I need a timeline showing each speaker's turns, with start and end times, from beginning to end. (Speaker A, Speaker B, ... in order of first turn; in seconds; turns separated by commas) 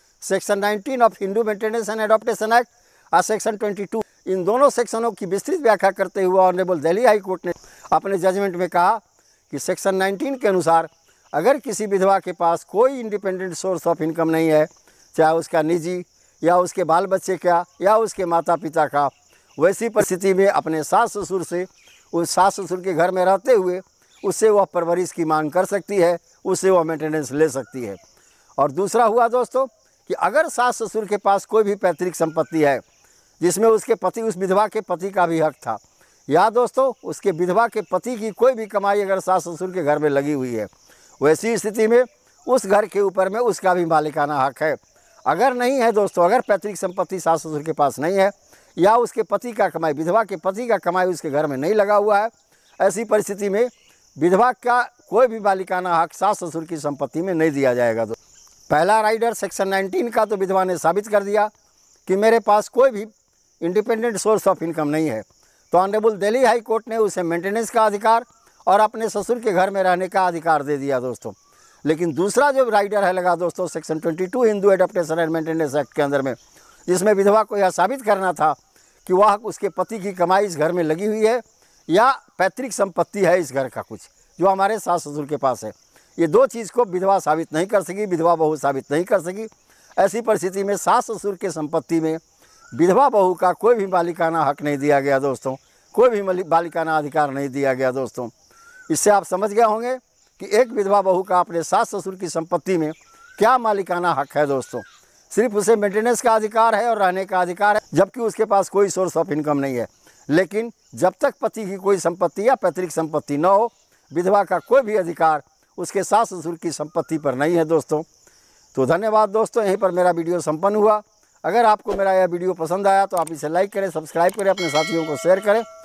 Speaker A: 0.2-28.0, Speaker A: 28.6-32.8, Speaker A: 33.4-58.2, Speaker A: 58.7-61.5, Speaker A: 62.1-92.2, Speaker A: 92.7-98.3, Speaker A: 98.9-118.0, Speaker A: 118.7-125.7